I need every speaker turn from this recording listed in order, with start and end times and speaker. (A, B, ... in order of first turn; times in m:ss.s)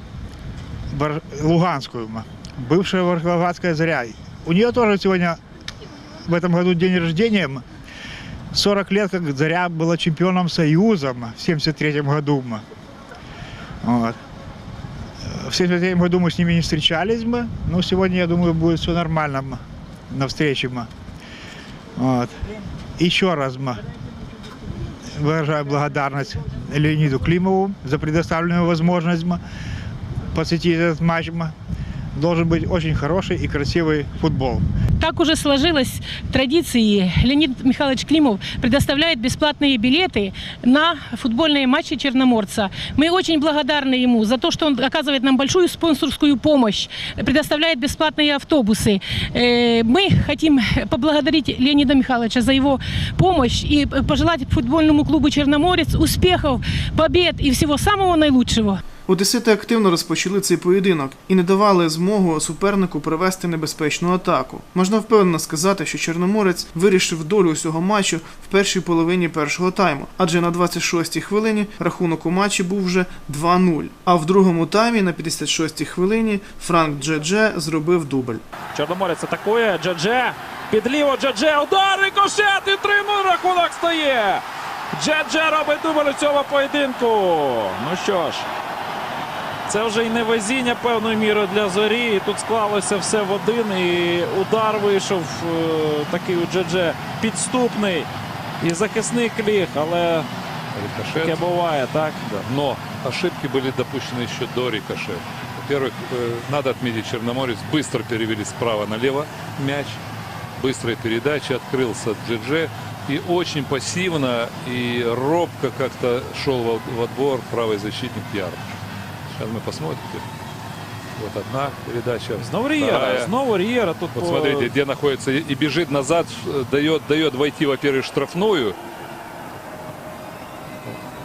0:00.9-0:05.4 A
0:06.2-0:07.6 A
0:08.5-0:12.6 A
0:13.8-0:14.2 A
0:15.2-0:20.9 A
0:22.0-0:22.4 A
0:23.0-0:23.8 A
0:25.1-0:29.4 A
0:30.3-0:31.5 A
0:32.2-0:34.6 A
0:35.0-0:58.8 B
0:59.1-1:18.4 C
1:18.7-1:28.5 D
1:29.7-1:38.1 D
1:38.6-1:40.3 D
1:40.8-1:41.4 E
1:41.1-1:42.2 D
1:42.2-1:50.0 E
1:50.6-1:58.8 E
1:59.3-2:00.3 E
2:01.2-2:03.3 E
2:02.4-2:04.7 D
2:04.2-2:08.8 E